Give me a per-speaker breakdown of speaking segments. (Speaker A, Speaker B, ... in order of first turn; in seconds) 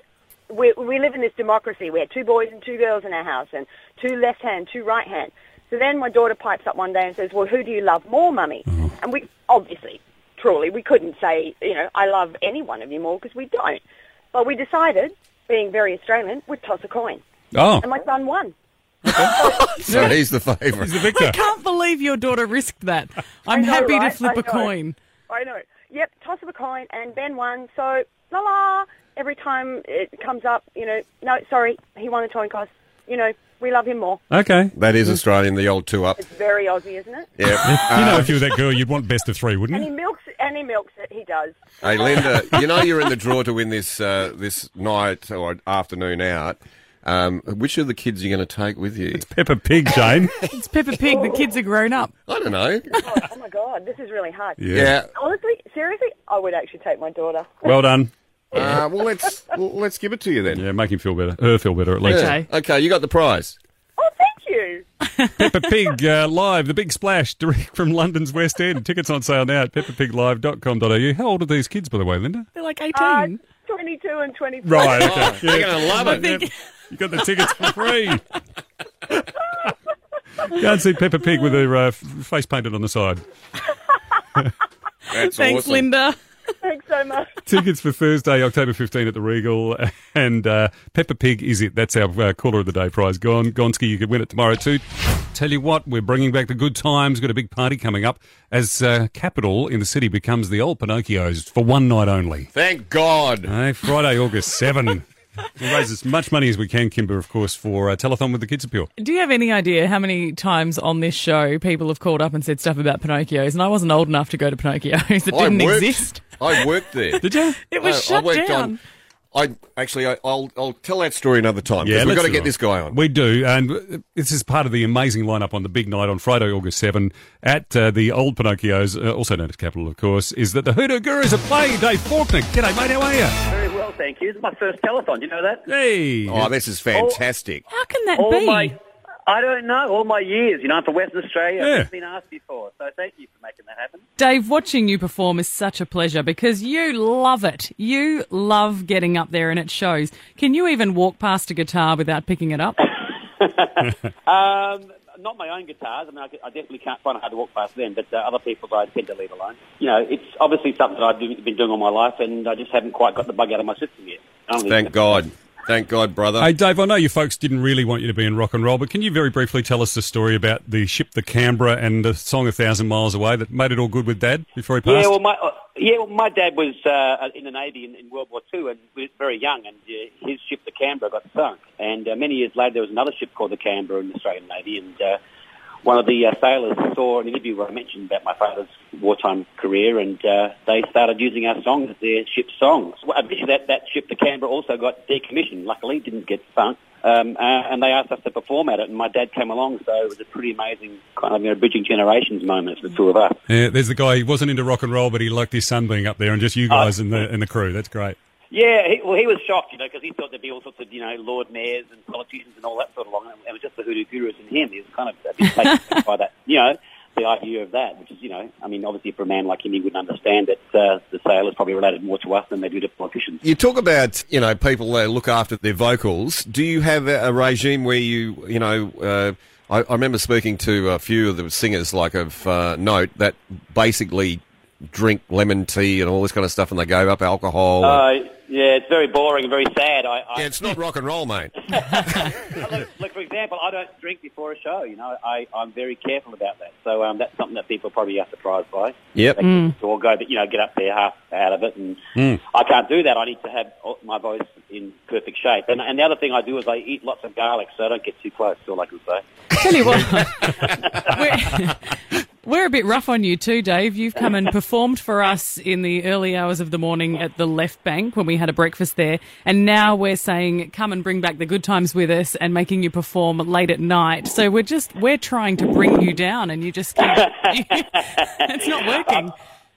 Speaker A: 0.5-13.8, 14.3-17.2, 17.8-18.5, 19.1-19.6, 23.5-24.7, 25.3-34.2, 36.2-37.3, 39.7-42.6, 51.0-51.5, 53.0-57.8, 64.0-64.8, 72.9-75.5, 86.6-87.3
Speaker B: 17.5-17.8, 34.3-34.7, 37.6-39.9, 49.2-50.3, 54.6-54.9, 57.7-58.6, 60.5-62.2, 65.4-72.5, 74.7-78.2, 80.6-83.2, 87.5-102.5, 103.5-105.0, 105.6-108.9, 117.2-117.6, 121.8-133.3, 135.7-136.4, 141.6-141.9, 166.4-175.1, 203.5-208.2
Speaker C: 19.4-20.2, 21.0-24.9, 50.3-52.1, 62.0-62.5, 72.5-73.4, 75.7-76.6, 77.4-77.8, 85.1-86.2, 109.0-118.8, 137.7-138.8, 144.2-152.8, 259.5-279.3
Speaker D: 19.8-21.3, 34.7-36.2, 37.4-38.4, 41.8-49.2, 52.3-53.0, 54.7-55.1, 58.5-60.7, 62.0-63.6, 74.9-76.3, 85.1-85.8, 102.5-103.5, 115.3-117.2, 117.8-118.8, 119.3-123.0, 136.3-137.6, 164.6-166.5, 223.4-238.1, 240.3-241.5, 249.1-249.4
Speaker E: 133.4-135.7, 136.9-137.2, 138.1-144.0, 152.8-165.2, 174.8-185.2, 185.8-203.3, 206.7-207.2, 208.5-223.4, 237.8-240.7, 241.7-259.2, 260.4-261.3, 277.0-279.3